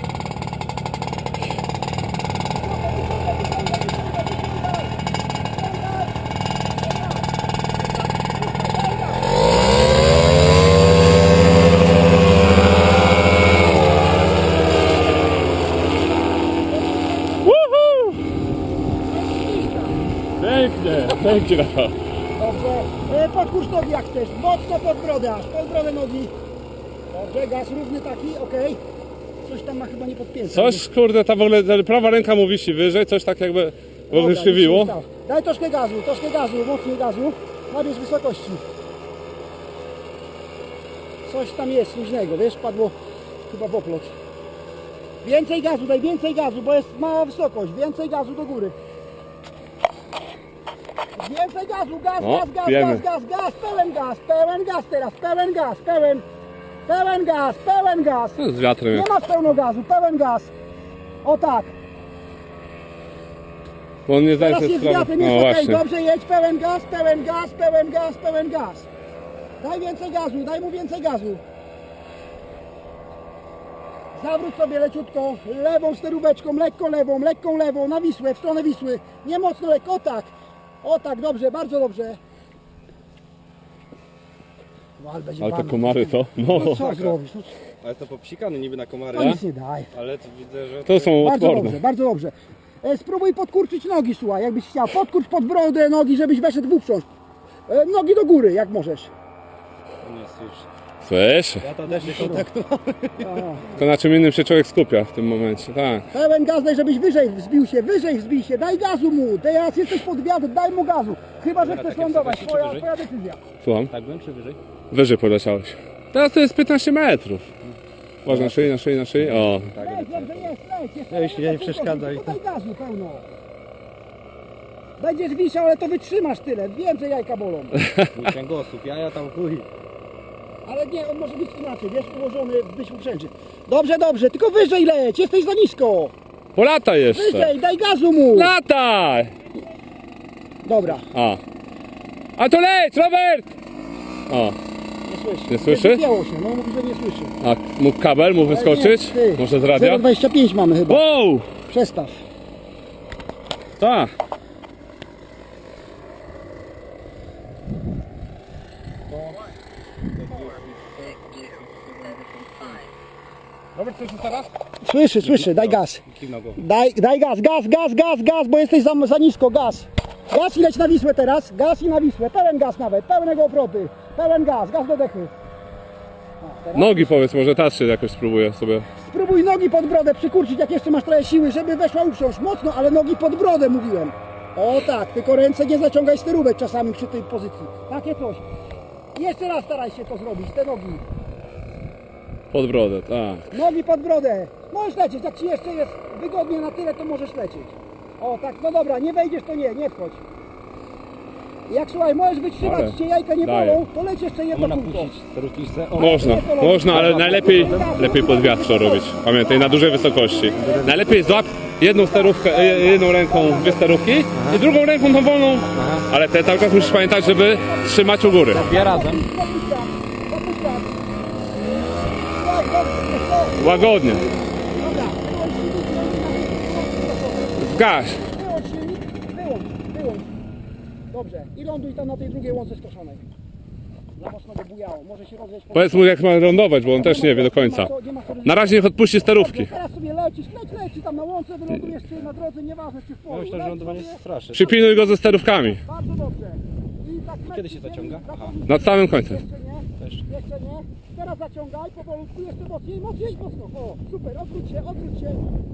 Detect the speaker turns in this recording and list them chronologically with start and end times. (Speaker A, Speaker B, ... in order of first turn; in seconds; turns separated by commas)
Speaker A: 2.5-4.9, Speaker A: 5.5-6.1, Speaker A: 6.8-7.3, Speaker A: 7.8-9.3, Speaker A: 16.7-17.6, Speaker B: 17.4-18.2, Speaker A: 19.1-20.0, Speaker B: 20.4-21.9, Speaker A: 22.4-26.3, Speaker A: 27.1-28.8, Speaker A: 29.4-30.9, Speaker B: 30.5-34.9, Speaker A: 34.1-38.6, Speaker A: 41.2-42.9, Speaker A: 43.5-44.1, Speaker A: 45.2-48.8, Speaker A: 51.1-56.2, Speaker B: 52.2-53.0, Speaker A: 56.9-58.4, Speaker B: 58.4-59.1, Speaker A: 58.9-60.5, Speaker A: 61.2-61.7, Speaker B: 64.1-65.8, Speaker A: 64.4-68.9, Speaker A: 69.6-71.4, Speaker A: 74.1-82.2, Speaker A: 85.0-87.5, Speaker B: 85.4-86.8, Speaker C: 86.5-87.2, Speaker C: 87.8-89.4, Speaker A: 89.1-89.9, Speaker C: 89.9-91.2, Speaker B: 90.8-91.8, Speaker A: 91.2-97.0, Speaker A: 97.7-99.1, Speaker C: 100.0-100.7, Speaker B: 101.0-101.6, Speaker C: 101.6-103.6, Speaker A: 101.9-102.5, Speaker A: 103.2-103.6, Speaker B: 103.7-106.0, Speaker A: 106.1-113.4, Speaker C: 111.6-112.9, Speaker B: 113.6-113.9, Speaker C: 113.9-114.6, Speaker B: 114.9-117.5, Speaker B: 118.2-119.7, Speaker C: 118.2-120.5, Speaker A: 119.8-123.2, Speaker C: 121.1-122.4, Speaker A: 125.0-127.8, Speaker C: 128.1-129.7, Speaker A: 130.6-136.1, Speaker B: 136.6-137.5, Speaker A: 137.1-138.5, Speaker B: 138.3-139.3, Speaker A: 140.6-141.1, Speaker B: 141.0-141.4, Speaker B: 142.4-143.5, Speaker B: 144.3-144.6, Speaker A: 145.0-147.3, Speaker B: 145.5-146.0, Speaker B: 147.4-150.0, Speaker A: 148.4-151.0, Speaker B: 150.9-151.5, Speaker A: 151.6-152.2, Speaker B: 153.8-154.1, Speaker C: 160.2-162.8, Speaker B: 163.8-164.5, Speaker A: 164.8-166.0, Speaker C: 165.2-166.6, Speaker A: 166.6-175.3, Speaker A: 176.4-177.2, Speaker B: 176.7-178.9, Speaker A: 178.9-188.4, Speaker A: 189.1-191.0, Speaker B: 192.5-193.5, Speaker A: 193.5-200.2, Speaker A: 201.7-205.1, Speaker B: 202.6-203.8, Speaker C: 204.5-206.2, Speaker B: 205.9-218.7, Speaker A: 206.0-214.0, Speaker C: 206.8-208.0, Speaker C: 210.6-211.3, Speaker C: 214.3-214.6, Speaker C: 215.7-216.1, Speaker A: 216.5-221.0, Speaker C: 218.5-219.2, Speaker A: 222.3-230.3, Speaker B: 223.6-224.2, Speaker B: 227.6-228.2, Speaker A: 231.1-233.2, Speaker A: 234.2-255.4, Speaker B: 235.7-237.9, Speaker B: 238.4-239.7, Speaker C: 243.3-244.7, Speaker B: 244.5-245.8, Speaker C: 247.4-248.6, Speaker B: 248.7-249.4